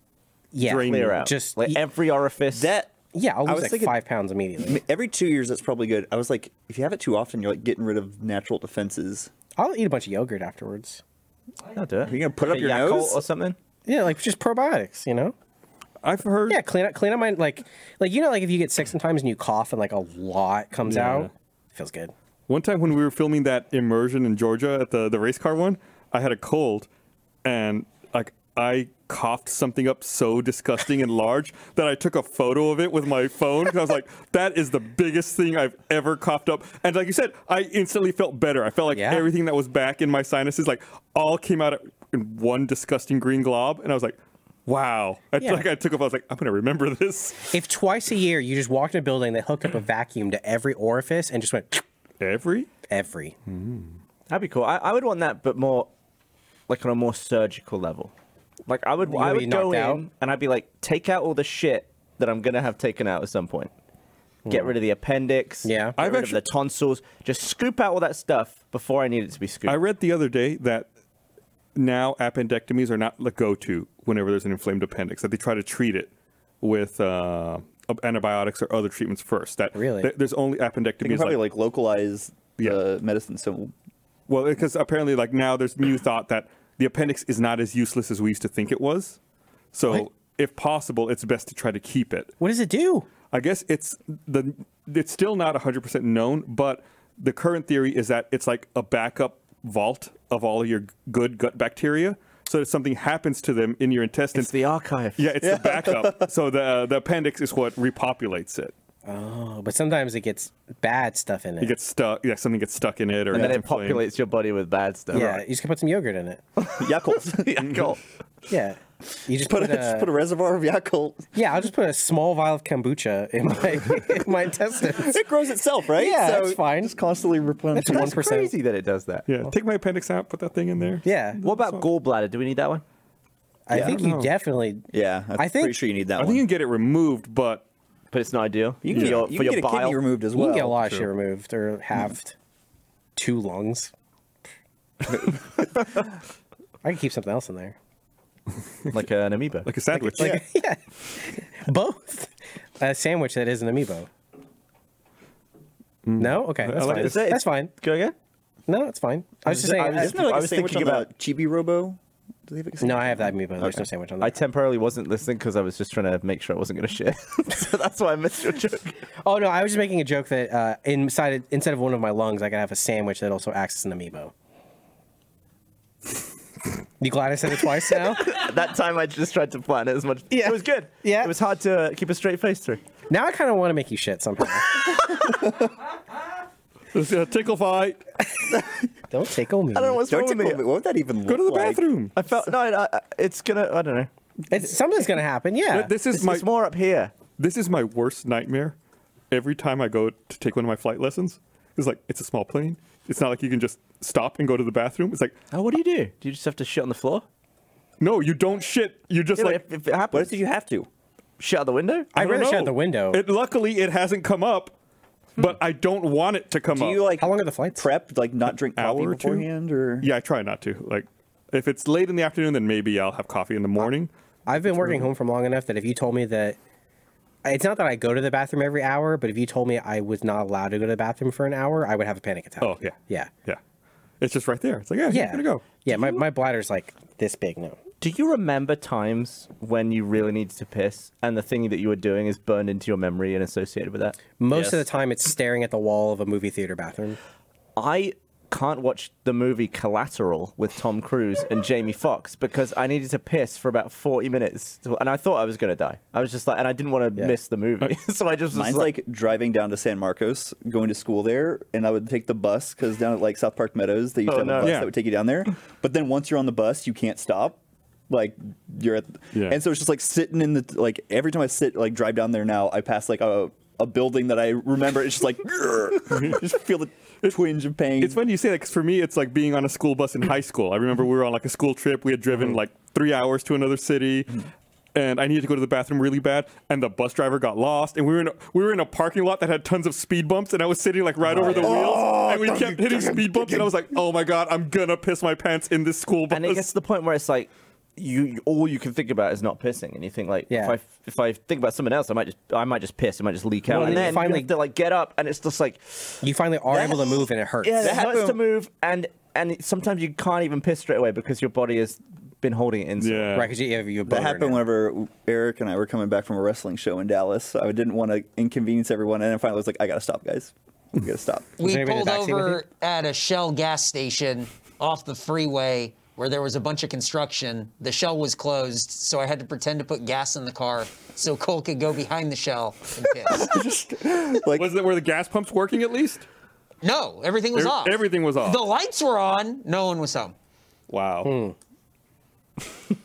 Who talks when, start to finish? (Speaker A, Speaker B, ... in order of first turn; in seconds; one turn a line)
Speaker A: 0.5-1.8
Speaker B: 0.6-1.1
Speaker C: 0.6-2.7
Speaker D: 2.5-2.9
Speaker A: 3.1-4.8
Speaker D: 3.5-4.0
Speaker D: 4.6-9.3
Speaker A: 9.6-11.0
Speaker C: 11.7-13.6
Speaker D: 12.0-13.2
Speaker A: 13.9-15.3
Speaker B: 16.0-16.6
Speaker A: 16.5-22.1
Speaker B: 20.9-21.3
Speaker B: 22.5-26.9
Speaker B: 27.4-47.5
Speaker A: 38.9-39.3
Speaker A: 45.4-45.7
Speaker A: 47.5-51.8
Speaker B: 52.2-52.7
Speaker A: 52.9-53.4
Speaker B: 53.5-53.9
Speaker C: 54.3-55.9
Speaker C: 56.7-58.1
Speaker C: 58.7-63.7
Speaker A: 59.0-60.0
Speaker A: 64.5-64.7
Speaker C: 64.5-69.8
Speaker A: 65.6-66.0
Speaker B: 66.0-66.4
Speaker B: 69.7-70.9
Speaker B: 71.8-81.4
Speaker A: 79.7-80.1
Speaker D: 81.0-83.7
Speaker B: 84.3-89.2
Speaker B: 89.7-92.3
Speaker A: 92.4-93.1
Speaker B: 93.3-104.5
Speaker C: 104.3-105.3
Speaker B: 105.2-108.7
Speaker D: 105.4-106.3
Speaker A: 109.0-111.8
Speaker B: 111.6-114.0
Speaker D: 113.3-113.6
Speaker C: 113.3-115.4
Speaker A: 115.1-116.4
Speaker C: 116.6-118.0
Speaker D: 116.8-117.7
Speaker A: 118.5-120.1
Speaker D: 119.4-121.3
Speaker A: 121.3-125.2
Speaker D: 124.9-128.2
Speaker A: 126.0-127.0
Speaker A: 127.7-128.5
Speaker C: 127.9-129.3
Speaker B: 129.3-131.9
Speaker A: 131.0-131.4
Speaker C: 131.4-132.8
Speaker A: 133.7-135.8
Speaker D: 133.7-134.0
Speaker B: 133.7-134.3
Speaker D: 134.9-136.4
Speaker B: 136.2-137.7
Speaker C: 138.1-140.0
Speaker D: 138.8-140.8
Speaker B: 138.9-139.3
Speaker A: 140.3-142.4
Speaker B: 140.8-141.1
Speaker A: 143.2-143.9
Speaker A: 146.8-147.8
Speaker C: 148.9-149.7
Speaker B: 149.7-150.4
Speaker A: 149.9-154.1
Speaker B: 156.0-157.3
Speaker A: 156.2-157.7
Speaker C: 156.8-158.2
Speaker A: 158.7-160.1
Speaker C: 159.5-161.1
Speaker D: 160.0-163.8
Speaker A: 162.8-164.4
Speaker C: 164.2-169.0
Speaker A: 169.2-174.3
Speaker A: 177.0-178.4
Speaker C: 177.9-182.8
Speaker A: 180.3-181.3
Speaker A: 183.1-184.8
Speaker B: 186.9-188.0
Speaker A: 189.1-190.0
Speaker C: 189.8-190.6
Speaker D: 190.1-191.9
Speaker B: 191.3-192.1
Speaker C: 192.2-194.1
Speaker A: 194.5-195.9
Speaker B: 195.7-196.5
Speaker C: 196.1-197.1
Speaker B: 197.3-198.8
Speaker B: 199.3-205.4
Speaker C: 205.5-207.2
Speaker B: 208.0-209.6
Speaker C: 209.4-210.4
Speaker D: 210.1-210.9
Speaker C: 211.4-212.1
Speaker A: 212.1-213.2
Speaker B: 212.2-214.7
Speaker B: 215.4-217.0
Speaker D: 216.7-220.1
Speaker A: 217.2-217.9
Speaker B: 218.7-219.5
Speaker B: 220.0-224.1
Speaker A: 224.5-226.6
Speaker B: 224.7-225.1
Speaker A: 227.4-233.3
Speaker B: 232.6-233.6
Speaker B: 234.2-235.7
Speaker A: 235.1-237.8
Speaker C: 238.0-244.3
Speaker A: 244.4-247.2
Speaker C: 247.8-258.9
Speaker D: 258.5-278.2
Speaker C: 264.3-264.8
Speaker B: 264.6-264.9
Speaker B: 269.3-269.6
Speaker B: 276.1-276.4
Speaker B: 278.0-296.7
Speaker A: 291.3-291.7
Speaker D: 291.4-293.7
Speaker C: 296.3-306.2
Speaker A: 300.5-300.8
Speaker A: 303.7-304.5
Speaker A: 306.2-308.0
Speaker C: 306.7-313.4
Speaker D: 307.8-308.4
Speaker B: 313.0-313.5
Speaker A: 313.4-314.6
Speaker D: 314.1-321.5
Speaker E: 321.6-333.6
Speaker A: 321.6-322.6
Speaker D: 333.3-334.7
Speaker B: 334.5-336.3
Speaker E: 336.8-340.4
Speaker B: 337.6-338.6
Speaker B: 340.9-341.3
Speaker A: 341.2-341.6